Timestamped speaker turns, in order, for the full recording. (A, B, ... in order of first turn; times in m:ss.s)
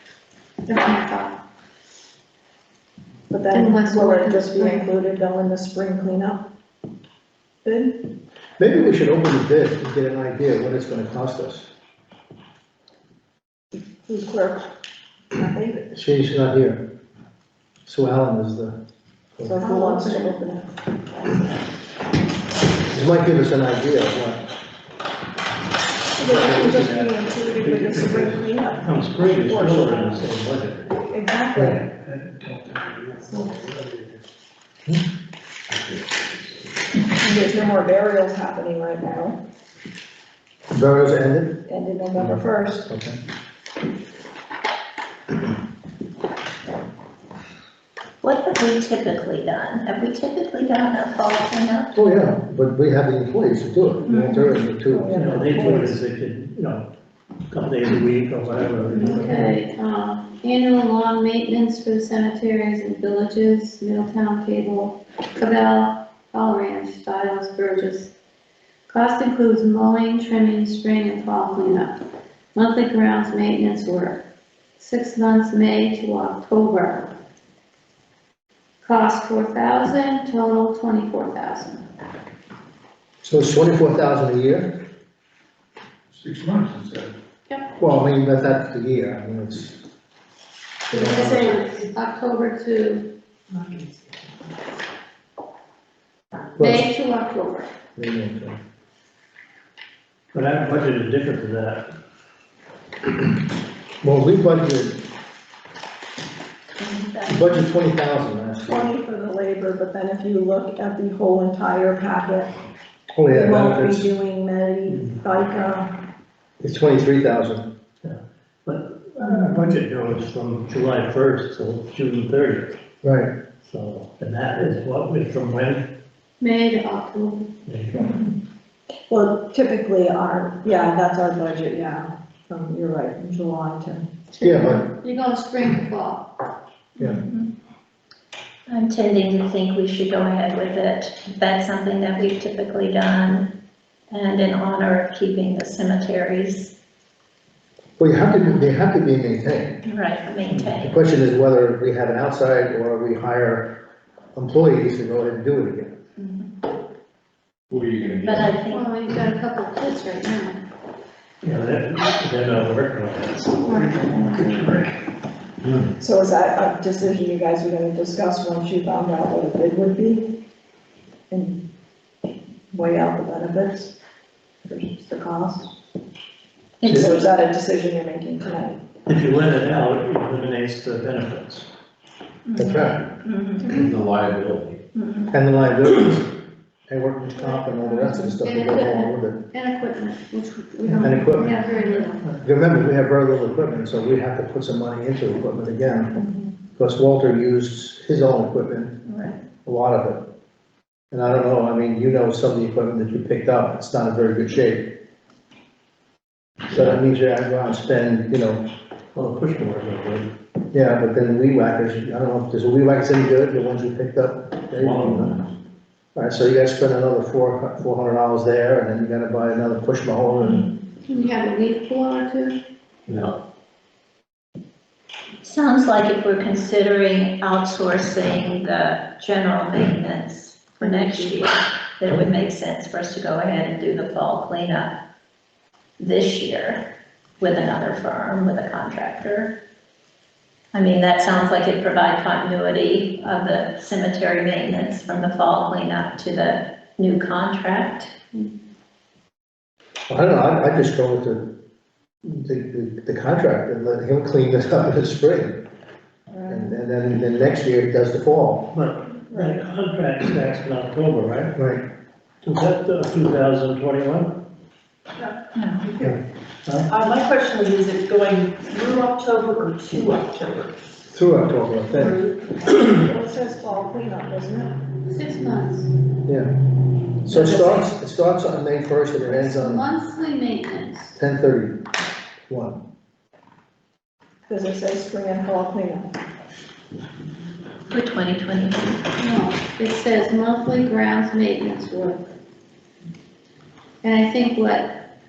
0:00.6-0:01.3 A
0:03.3-0:06.4 B
0:03.5-0:04.8 A
0:07.6-0:07.9 B
0:08.6-0:11.7 C
0:14.1-0:14.6 B
0:15.3-0:15.8 B
0:15.9-0:16.8 C
0:17.8-0:18.7 C
0:19.4-0:20.7 B
0:19.6-0:20.3 A
0:22.9-0:24.4 C
0:26.2-0:30.3 B
0:26.2-0:30.9 D
0:29.6-0:30.1 E
0:31.1-0:31.8 B
0:31.5-0:31.8 C
0:31.9-0:34.2 F
0:37.2-0:39.4 B
0:40.7-0:41.6 C
0:41.7-0:42.9 B
0:42.2-0:43.2 C
0:48.2-0:52.0 E
0:51.9-0:56.0 C
0:54.0-0:54.5 E
0:54.9-0:55.9 B
0:55.1-0:55.7 E
0:55.2-0:56.8 D
0:57.5-0:59.4 D
0:58.9-1:08.1 A
1:08.9-1:12.0 A
1:12.5-1:14.2 A
1:14.8-1:17.1 A
1:18.8-1:21.8 A
1:23.2-1:24.7 C
1:26.1-1:27.1 F
1:27.8-1:29.8 C
1:30.9-1:31.6 C
1:30.9-1:33.0 A
1:36.6-1:36.8 C
1:36.6-1:37.7 A
1:38.0-1:38.6 C
1:40.3-1:41.8 D
1:44.0-1:45.0 C
1:46.7-1:47.7 E
1:47.3-1:48.8 C
1:48.7-1:52.5 B
1:53.1-1:54.1 C
1:53.3-1:55.9 B
1:56.6-1:57.6 C
1:58.0-2:02.8 D
1:59.3-1:59.6 E
2:03.0-2:03.3 C
2:03.6-2:05.8 D
2:06.4-2:07.5 A
2:07.6-2:08.1 D
2:09.1-2:14.1 B
2:14.3-2:16.3 A
2:14.4-2:14.9 C
2:17.0-2:17.5 E
2:18.7-2:23.5 E
2:24.1-2:26.7 E
2:28.0-2:29.8 C
2:29.9-2:30.9 E
2:30.5-2:33.7 C
2:34.4-2:35.9 C
2:36.2-2:36.5 E
2:37.7-2:38.5 F
2:38.2-2:38.9 E
2:38.7-2:40.6 A
2:41.4-2:43.7 D
2:43.6-2:44.8 A
2:43.8-2:44.8 F
2:46.0-2:50.2 B
2:51.3-2:51.6 B
2:52.7-2:53.9 B
2:54.6-2:55.7 B
2:56.8-2:57.2 E
2:56.8-2:58.8 B
2:59.1-3:01.7 D
3:02.4-3:03.8 E
3:02.6-3:03.1 C
3:03.7-3:04.8 F
3:04.9-3:05.3 E
3:05.3-3:06.3 C
3:06.9-3:09.4 C
3:07.4-3:12.2 A
3:11.0-3:11.6 C
3:11.3-3:12.4 E
3:12.4-3:16.1 C
3:16.8-3:18.9 C
3:19.1-3:19.4 E
3:19.6-3:20.2 C
3:21.1-3:24.8 C
3:26.7-3:28.6 C
3:29.1-3:30.3 D
3:30.7-3:35.4 C
3:34.7-3:35.5 F
3:36.1-3:40.6 C
3:41.0-3:42.6 A
3:43.1-3:43.3 F
3:45.4-3:55.0 E
3:50.9-3:51.3 B
3:56.0-3:56.8 E
3:57.4-3:59.5 E
4:00.7-4:08.1 E
4:10.1-4:11.4 C
4:12.2-4:15.6 C
4:16.4-4:18.7 C
4:18.7-4:21.5 D
4:21.6-4:21.8 C
4:22.4-4:24.3 D
4:25.5-4:25.9 E
4:26.9-4:30.7 G
4:31.1-4:32.2 C
4:31.9-4:32.5 G
4:32.8-4:34.7 B
4:35.0-4:35.9 A
4:36.2-4:36.5 C
4:37.2-4:39.8 C
4:39.3-4:41.2 A
4:41.2-4:41.8 C
4:42.5-4:42.8 C
4:44.5-4:46.1 B
4:47.9-4:49.0 E
4:49.2-4:52.3 A
4:54.0-4:55.0 A